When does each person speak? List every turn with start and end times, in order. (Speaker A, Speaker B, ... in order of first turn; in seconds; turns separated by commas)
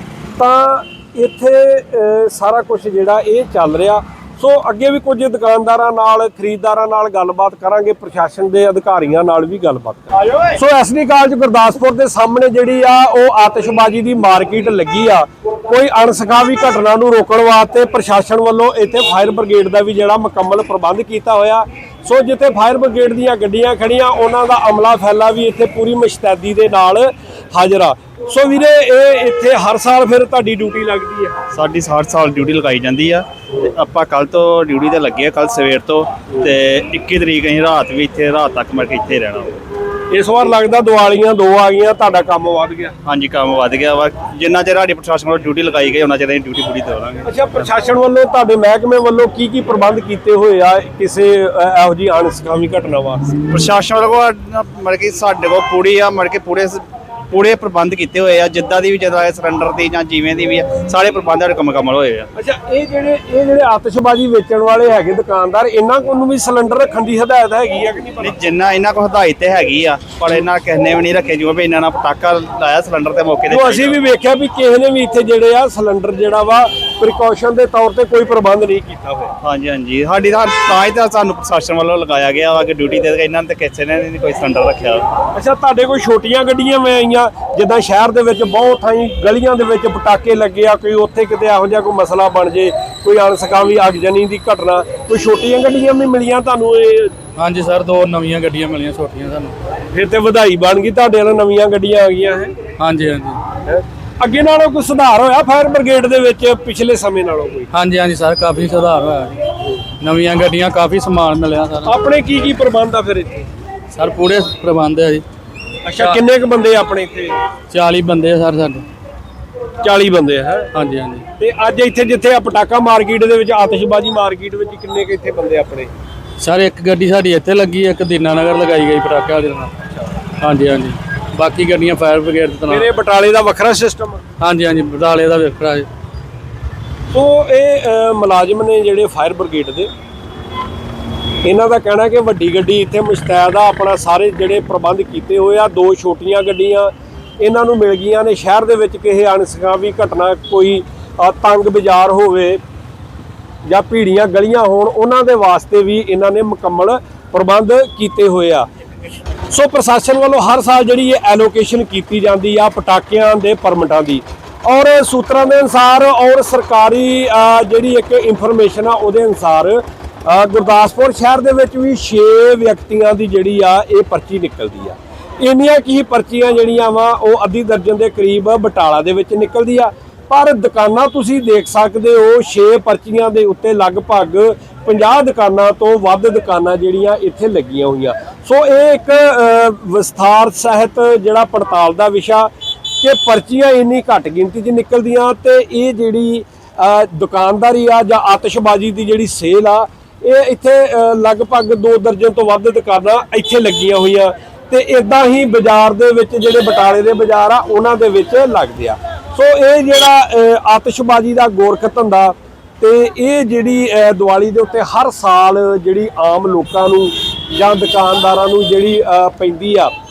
Speaker A: 0.4-31.3, Speaker B: 31.5-39.6, Speaker A: 40.1-42.9, Speaker B: 43.1-47.3, Speaker A: 47.2-53.3, Speaker B: 53.5-62.3, Speaker A: 62.4-68.4, Speaker B: 68.2-74.0, Speaker A: 73.5-79.3, Speaker B: 79.4-85.1, Speaker A: 85.3-97.1, Speaker C: 97.4-99.5, Speaker A: 99.9-102.5, Speaker C: 102.8-103.4, Speaker A: 103.7-107.7, Speaker C: 107.7-109.4, Speaker C: 110.0-112.0, Speaker A: 111.8-113.5, Speaker C: 113.9-115.2, Speaker A: 115.9-117.3, Speaker C: 117.7-118.9, Speaker A: 119.8-120.7, Speaker C: 120.7-121.3, Speaker A: 121.4-125.9, Speaker C: 126.4-129.7, Speaker C: 130.4-132.9, Speaker A: 132.7-134.2, Speaker C: 134.4-135.9, Speaker A: 137.1-139.9, Speaker A: 141.4-152.6, Speaker A: 153.7-158.7, Speaker A: 159.5-192.5, Speaker A: 193.0-219.9